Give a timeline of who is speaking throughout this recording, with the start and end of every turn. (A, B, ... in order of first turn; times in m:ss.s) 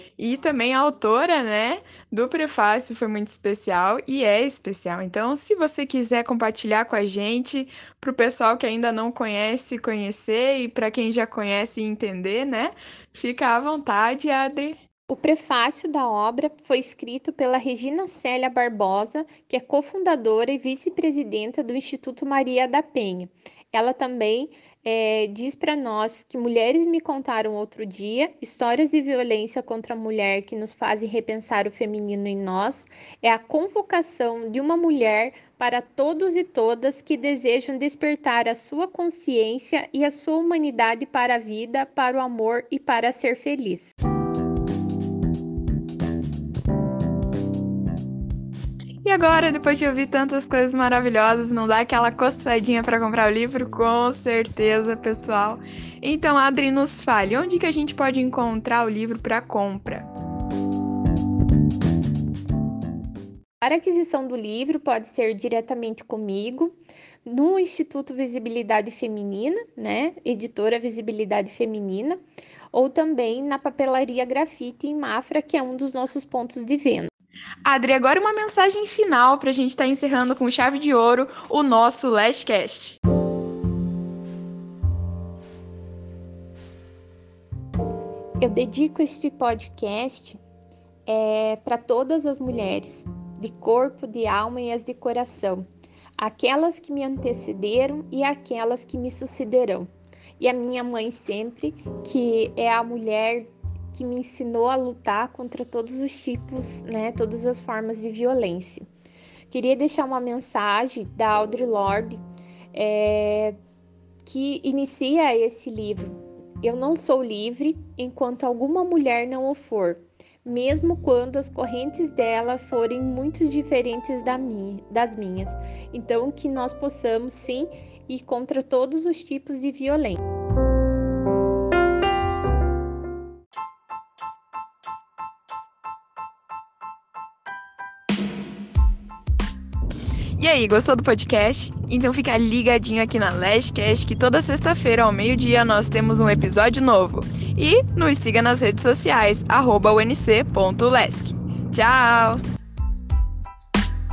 0:00.2-0:14.8 A
0:15.1-0:43.9 B
0:49.0-1:00.1 A
1:03.6-1:12.2 B
1:12.7-1:17.1 B
1:17.7-1:23.0 A
1:28.4-1:30.4 B
1:31.1-1:35.6 B
1:36.2-1:39.9 B
1:40.4-1:48.8 B
1:49.5-1:52.2 B
1:52.7-1:53.6 B
1:54.2-2:10.2 B
2:20.4-2:32.4 A